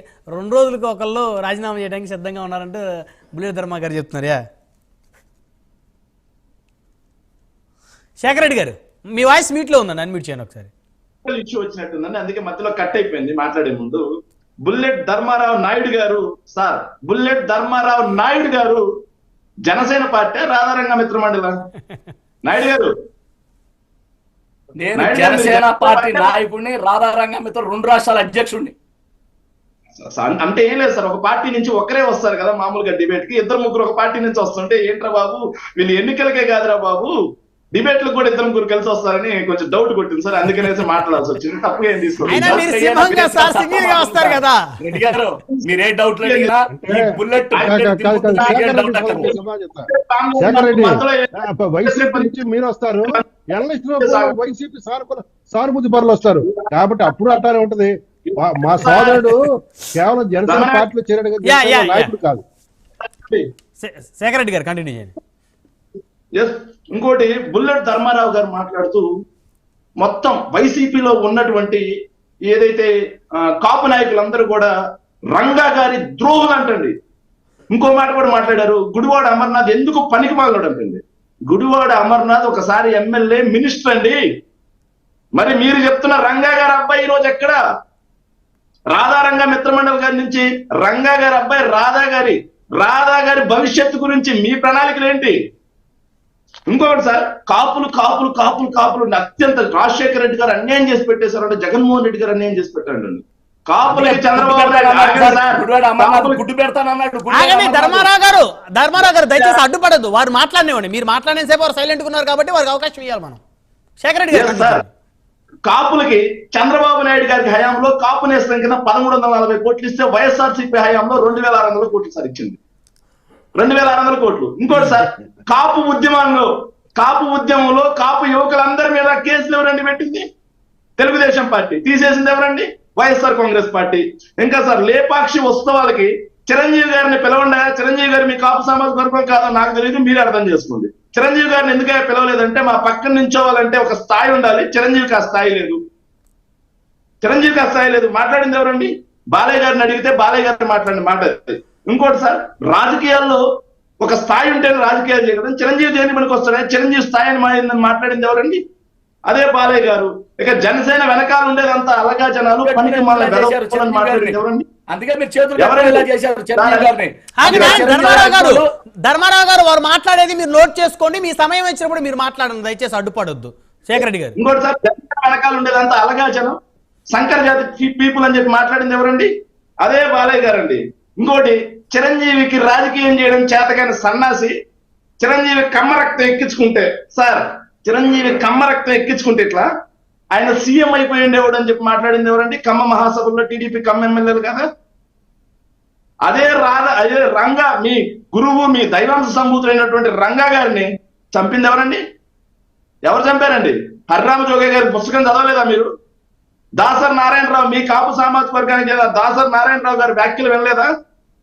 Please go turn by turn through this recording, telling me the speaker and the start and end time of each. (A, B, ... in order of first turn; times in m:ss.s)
0:00.3-0:04.4 A
0:08.2-0:10.7 A
0:11.2-0:14.0 B
0:14.6-0:18.8 B
0:19.6-0:21.5 B
0:22.4-0:22.9 B
0:24.8-0:28.7 C
0:25.0-0:26.3 B
0:30.0-0:37.1 B
0:37.7-0:42.6 B
0:42.2-0:44.6 A
0:42.3-0:49.4 C
0:46.2-0:46.5 B
0:46.7-0:49.9 D
0:48.3-0:49.3 B
0:49.9-0:52.4 B
0:50.4-1:02.4 D
0:54.0-0:54.3 B
0:58.6-0:59.4 B
1:00.5-1:00.9 B
1:01.4-1:02.1 A
1:03.8-1:05.1 A
1:06.3-1:09.0 B
1:10.0-1:11.9 B
1:12.4-1:14.7 B
1:15.3-1:16.9 B
1:17.7-1:24.2 B
1:25.4-1:27.6 B
1:28.9-1:35.4 B
1:36.7-1:46.4 B
1:43.9-1:48.0 C
1:47.3-1:53.4 A
1:54.0-1:54.9 A
1:54.3-1:54.8 B
1:55.6-2:02.6 B
2:03.6-2:10.2 B
2:04.7-2:05.0 A
2:11.0-2:25.8 B
2:27.2-2:33.4 B
2:34.0-2:38.6 B
2:39.3-2:44.7 B
2:42.6-2:44.4 C
2:44.9-2:48.7 C
2:45.6-2:46.9 B
2:47.4-2:54.4 A
2:47.4-2:48.2 B
2:54.4-2:56.6 B
2:57.1-2:59.3 B
2:59.8-3:04.5 B
3:05.2-3:09.7 B
3:10.3-3:14.6 B
3:16.2-3:22.0 B
3:23.0-3:25.9 B
3:26.8-3:30.9 B